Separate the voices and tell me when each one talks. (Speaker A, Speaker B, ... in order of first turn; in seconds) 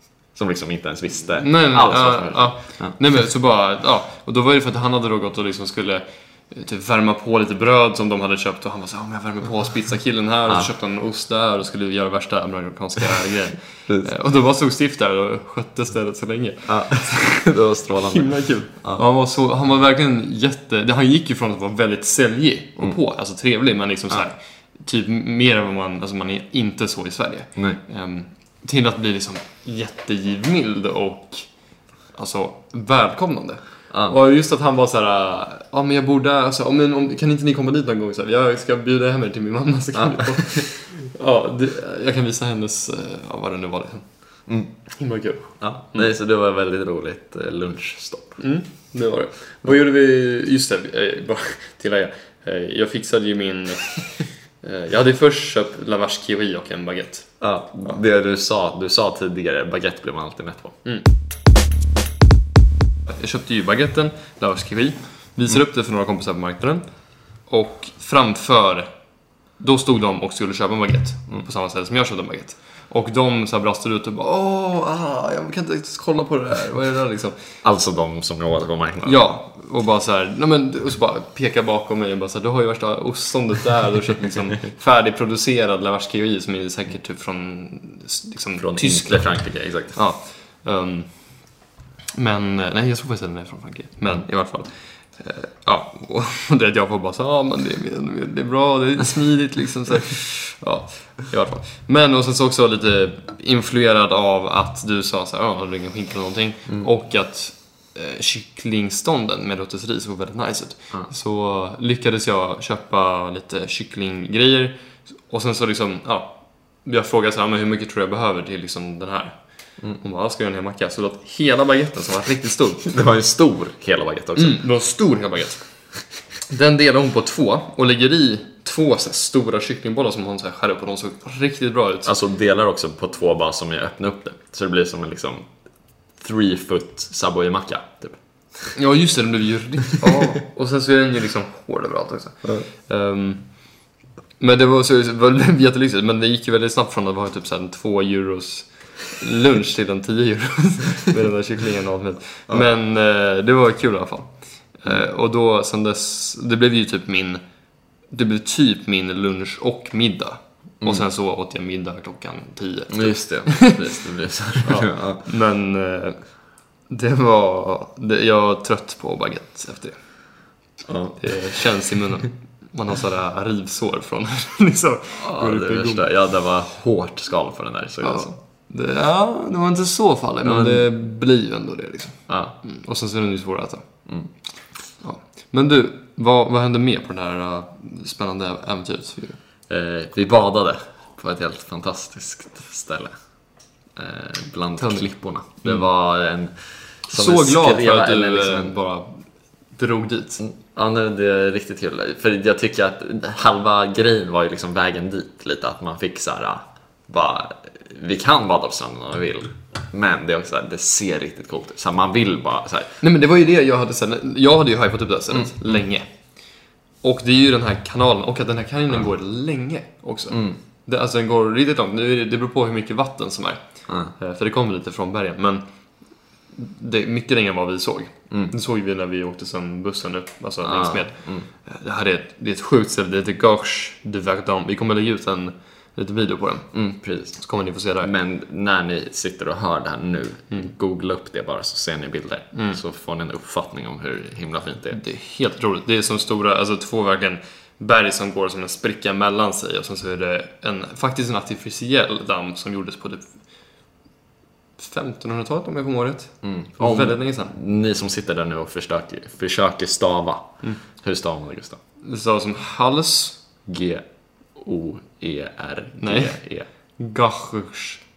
Speaker A: 0.3-2.9, 16.7-19.0, 33.9-34.1, 39.9-40.6, 45.6-48.4, 57.4-60.8, 77.6-79.3, 88.6-90.0, 122.8-124.6, 132.0-135.4, 136.2-138.7, 140.0-140.3, 162.9-165.2, 170.8-171.2, 175.1-178.3, 180.4-180.8, 182.3-182.5, 189.7-193.1, 193.9-198.7, 200.4-213.0, 215.3-215.8, 220.3-220.6, 230.6-231.4, 236.7-237.4, 238.0-245.0, 256.4-261.8, 263.7-264.0, 264.6-266.7
Speaker B: 1.4-17.3, 18.1-31.5, 32.1-44.0, 44.9-46.1, 48.4-57.3, 63.1-66.9, 67.5-68.9, 69.6-77.4, 79.0-89.4, 89.9-91.3, 92.1-119.4, 119.9-122.9, 124.3-125.7, 126.4-132.1, 138.7-143.4, 144.4-157.4, 158.1-163.8, 164.6-166.2, 166.9-169.9, 171.2-176.0, 178.0-183.8, 185.0-189.4, 194.8-195.1, 197.1-199.2, 199.8-200.4, 213.0-216.1, 217.0-223.6, 224.1-225.6, 226.5-236.7, 237.4-238.1, 242.5-242.8, 244.9-253.3, 254.8-257.5, 262.0-263.4, 266.0-266.4, 267.0-268.0